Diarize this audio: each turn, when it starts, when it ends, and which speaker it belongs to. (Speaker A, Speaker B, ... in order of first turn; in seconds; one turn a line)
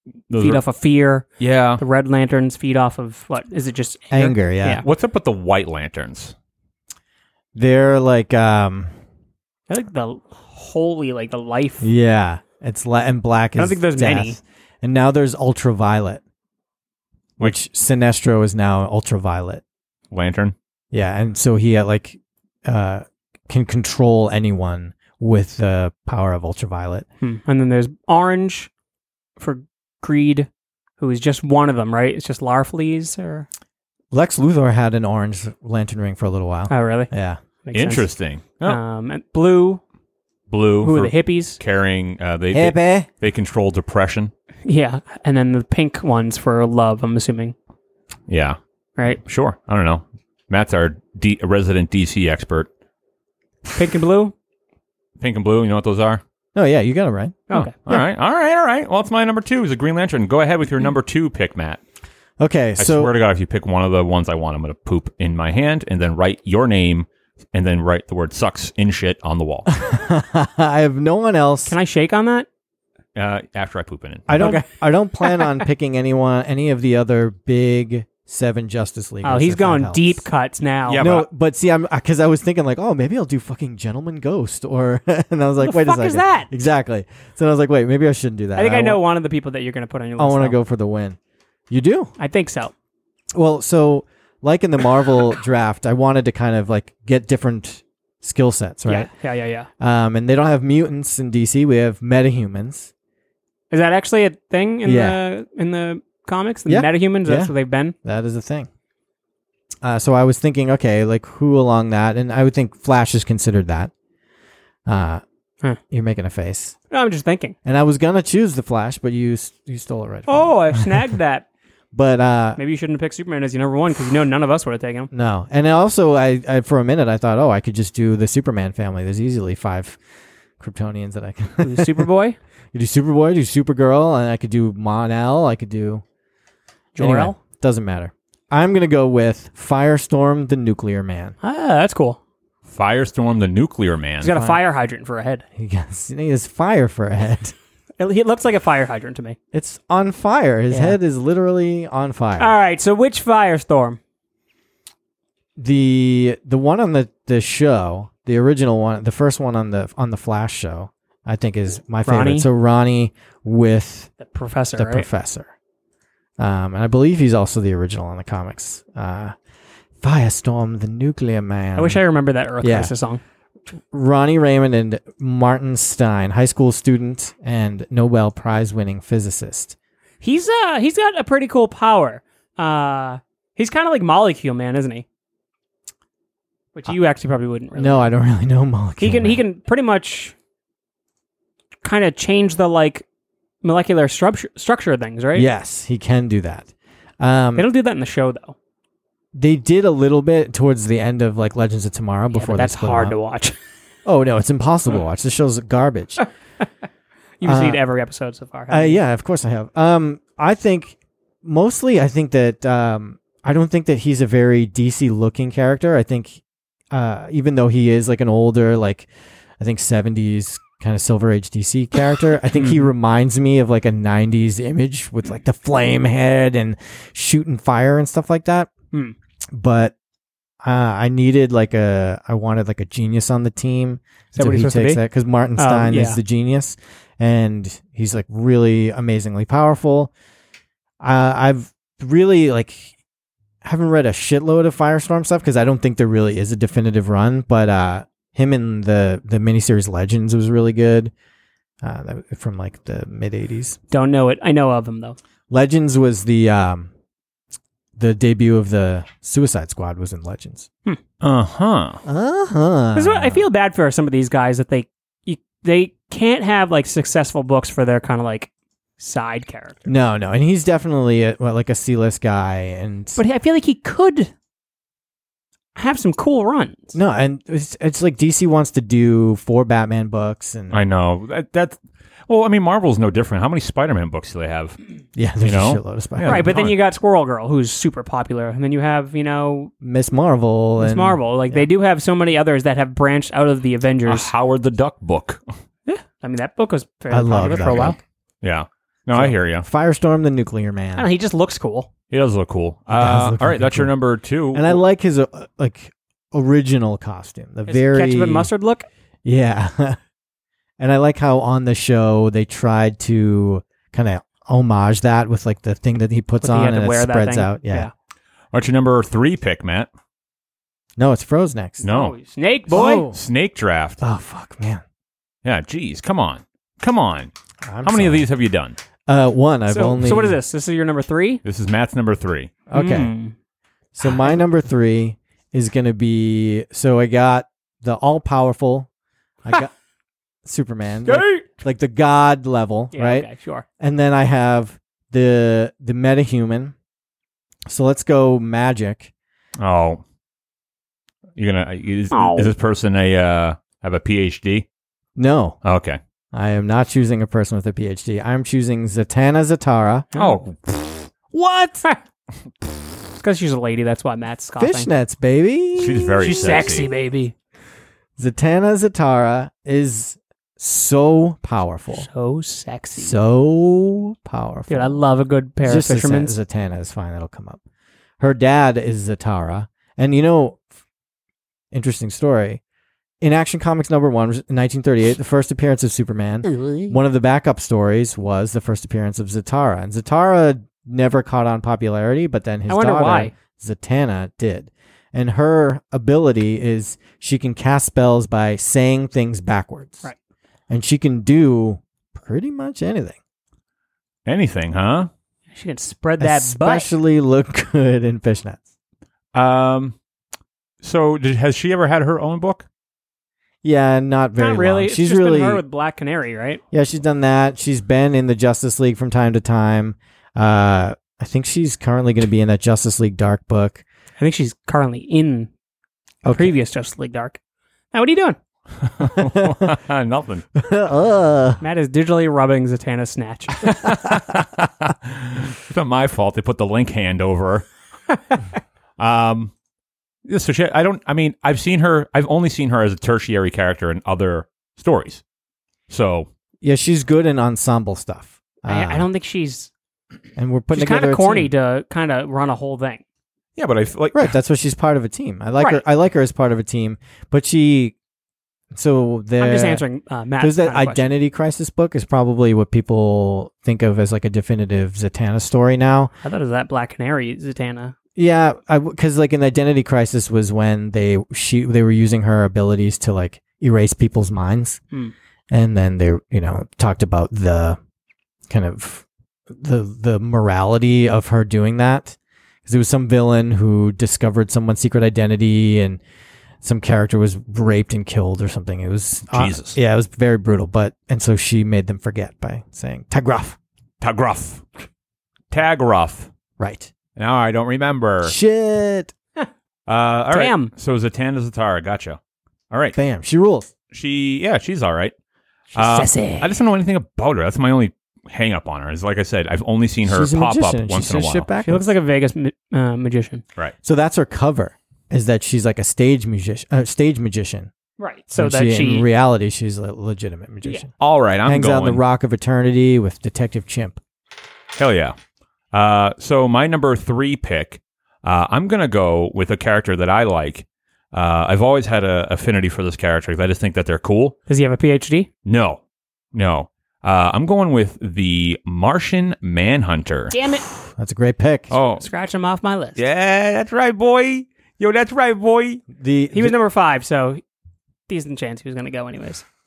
Speaker A: 0.3-0.6
Speaker B: 0.3-1.2
Speaker A: 1.4-1.8
Speaker B: 1.8-4.8
Speaker C: 4.1-4.8
Speaker A: 4.8-6.3
Speaker C: 7.5-8.9
Speaker B: 9.7-11.9
Speaker C: 11.8-16.2
Speaker B: 13.6-14.4
Speaker C: 17.4-19.6
Speaker A: 20.1-20.5
Speaker C: 20.9-27.1
Speaker B: 27.2-28.7
Speaker B: 29.4-30.5
Speaker B: 31.0-33.5
Speaker C: 34.1-37.4
Speaker B: 36.7-37.1
Speaker B: 37.6-38.1
Speaker A: 37.7-38.8
Speaker B: 38.6-39.8
Speaker A: 40.5-44.3
Speaker B: 40.8-41.6
Speaker C: 42.5-43.1
Speaker B: 44.6-47.5
Speaker A: 48.3-48.6
Speaker A: 49.2-52.7
Speaker B: 53.8-54.3
Speaker A: 55.2-56.2
Speaker C: 56.5-57.4
Speaker B: 57.5-57.7
Speaker A: 57.5-61.8
Speaker C: 62.4-63.1
Speaker A: 62.8-69.7
Speaker C: 69.7-71.7
Speaker B: 71.7-72.5
Speaker A: 73.1-74.4
Speaker C: 74.3-80.2
Speaker B: 74.4-74.7
Speaker B: 75.2-75.5
Speaker B: 79.2-81.1
Speaker A: 80.9-81.3
Speaker C: 81.0-89.0
Speaker B: 85.6-86.5
Speaker B: 88.6-90.6
Speaker C: 90.2-91.2
Speaker C: 91.7-92.1
Speaker B: 92.2-92.7
Speaker C: 93.3-99.1
Speaker B: 98.9-99.7
Speaker C: 99.8-102.9
Speaker B: 103.7-107.9
Speaker C: 104.8-105.2
Speaker C: 106.7-108.7
Speaker C: 109.8-113.9
Speaker C: 114.9-115.2
Speaker C: 115.9-116.8
Speaker B: 116.9-117.5
Speaker C: 117.6-121.0
Speaker B: 120.3-121.5
Speaker C: 121.9-122.6
Speaker B: 122.6-125.1
Speaker C: 125.1-130.0
Speaker C: 130.6-132.1
Speaker B: 131.6-132.4
Speaker C: 132.7-136.0
Speaker B: 136.9-137.4
Speaker C: 137.0-141.4
Speaker B: 141.4-142.2
Speaker A: 142.7-144.3
Speaker B: 144.2-145.4
Speaker C: 144.2-144.6
Speaker C: 145.6-147.5
Speaker B: 148.0-149.4
Speaker C: 149.5-152.5
Speaker B: 150.7-151.0
Speaker B: 152.4-154.0
Speaker C: 155.6-164.1
Speaker B: 162.0-162.5
Speaker B: 164.2-165.1
Speaker C: 164.8-165.5
Speaker C: 166.4-169.3
Speaker C: 170.0-172.0
Speaker B: 171.8-173.2
Speaker C: 172.6-172.9
Speaker C: 173.9-179.8
Speaker B: 180.2-185.0
Speaker B: 186.8-188.1
Speaker C: 187.8-189.4
Speaker B: 189.0-190.3
Speaker B: 191.8-193.0
Speaker B: 193.6-195.5
Speaker C: 195.3-197.7
Speaker B: 197.6-198.6
Speaker C: 199.3-203.2
Speaker B: 202.3-203.5
Speaker C: 204.0-206.2
Speaker B: 207.4-209.0
Speaker C: 207.4-207.8
Speaker C: 208.7-228.7
Speaker B: 222.5-222.8
Speaker C: 229.5-229.9
Speaker C: 230.6-240.1
Speaker B: 234.3-235.0
Speaker B: 235.6-236.2
Speaker C: 241.0-242.9
Speaker C: 243.6-251.1
Speaker C: 251.8-253.8
Speaker B: 253.9-255.2
Speaker C: 255.5-256.9
Speaker C: 258.0-260.7
Speaker A: 261.2-262.0
Speaker C: 262.0-263.4
Speaker B: 262.9-269.8
Speaker C: 269.9-273.2
Speaker B: 273.1-274.3
Speaker B: 275.8-277.0
Speaker C: 276.9-280.8
Speaker A: 280.7-281.8
Speaker A: 282.3-284.8
Speaker C: 285.1-286.7
Speaker A: 285.4-286.8
Speaker B: 286.2-289.7
Speaker C: 289.8-291.7
Speaker B: 290.8-294.3
Speaker A: 294.1-295.4
Speaker B: 295.9-298.0
Speaker C: 297.1-298.0
Speaker A: 298.4-299.6
Speaker C: 299.1-301.1
Speaker B: 301.0-301.9
Speaker A: 302.1-304.8
Speaker C: 302.9-303.9
Speaker C: 304.5-308.5
Speaker B: 307.7-308.9
Speaker C: 309.2-310.0
Speaker C: 310.8-317.9
Speaker B: 316.4-317.9
Speaker A: 318.5-319.9
Speaker C: 321.0-321.8
Speaker B: 321.8-323.1
Speaker A: 321.8-322.1
Speaker C: 322.7-323.2
Speaker A: 322.7-324.0
Speaker C: 324.0-324.8
Speaker A: 325.4-327.3
Speaker C: 327.6-328.3
Speaker A: 327.8-328.8
Speaker C: 329.1-330.4
Speaker B: 329.7-331.4
Speaker A: 331.4-332.5
Speaker C: 332.7-333.1
Speaker B: 332.7-333.3
Speaker C: 333.9-338.9
Speaker C: 339.4-339.7
Speaker C: 340.4-346.7
Speaker B: 341.1-341.5
Speaker B: 342.9-343.6
Speaker C: 347.7-349.1
Speaker A: 349.6-350.0
Speaker A: 351.4-354.6
Speaker B: 352.1-352.5
Speaker C: 355.1-355.6
Speaker A: 355.6-356.0
Speaker C: 356.3-360.1
Speaker B: 360.1-360.4
Speaker A: 360.1-361.1
Speaker C: 361.3-361.8
Speaker B: 363.2-364.9
Speaker C: 364.6-366.6
Speaker A: 365.8-366.9
Speaker B: 366.2-367.3
Speaker C: 368.2-372.1
Speaker B: 371.9-373.1
Speaker C: 373.0-375.0
Speaker B: 374.7-376.4
Speaker C: 375.6-377.6
Speaker C: 378.2-380.6
Speaker C: 381.7-382.6
Speaker C: 383.2-400.0
Speaker B: 392.7-393.3
Speaker C: 400.7-403.2
Speaker A: 404.2-405.1
Speaker B: 405.5-406.9
Speaker C: 406.2-408.6
Speaker A: 409.3-410.0
Speaker A: 410.8-412.6
Speaker C: 413.6-415.6
Speaker B: 414.4-416.6
Speaker C: 416.7-423.8
Speaker B: 424.2-425.5
Speaker C: 426.2-426.5
Speaker B: 426.3-427.4
Speaker B: 427.9-428.4
Speaker A: 428.8-430.4
Speaker C: 429.1-429.7
Speaker C: 430.6-431.6
Speaker B: 431.6-433.7
Speaker A: 433.6-437.7
Speaker A: 439.0-439.5
Speaker A: 440.2-445.2
Speaker A: 445.9-446.3
Speaker C: 446.6-449.1
Speaker B: 448.7-449.7
Speaker C: 450.4-451.5
Speaker B: 450.7-453.0
Speaker A: 453.6-454.3
Speaker C: 454.1-457.9
Speaker C: 458.7-459.8
Speaker B: 459.4-461.1
Speaker C: 460.4-466.1
Speaker B: 466.2-467.9
Speaker C: 468.1-474.8
Speaker C: 475.5-477.8
Speaker C: 478.5-486.0
Speaker C: 486.6-493.6
Speaker A: 489.3-489.8
Speaker A: 494.0-494.6
Speaker A: 495.5-496.3
Speaker C: 496.6-496.9
Speaker A: 497.1-498.4
Speaker C: 498.2-499.1
Speaker A: 499.9-502.2
Speaker B: 500.3-500.7
Speaker A: 502.7-503.0
Speaker C: 502.9-503.7
Speaker A: 503.9-505.1
Speaker A: 505.7-511.5
Speaker B: 505.8-506.5
Speaker C: 510.0-511.9
Speaker B: 511.6-513.4
Speaker C: 513.8-517.7
Speaker B: 518.0-519.1
Speaker C: 518.4-520.9
Speaker A: 521.0-522.0
Speaker C: 521.4-524.0
Speaker A: 524.8-525.1
Speaker A: 525.7-534.4
Speaker B: 534.5-535.3
Speaker A: 535.4-535.8
Speaker A: 536.3-540.3
Speaker B: 540.3-540.7
Speaker C: 540.8-541.7
Speaker A: 541.7-542.1
Speaker B: 542.0-543.0
Speaker A: 543.0-545.8
Speaker C: 545.9-546.5
Speaker B: 546.3-547.4
Speaker B: 548.1-549.4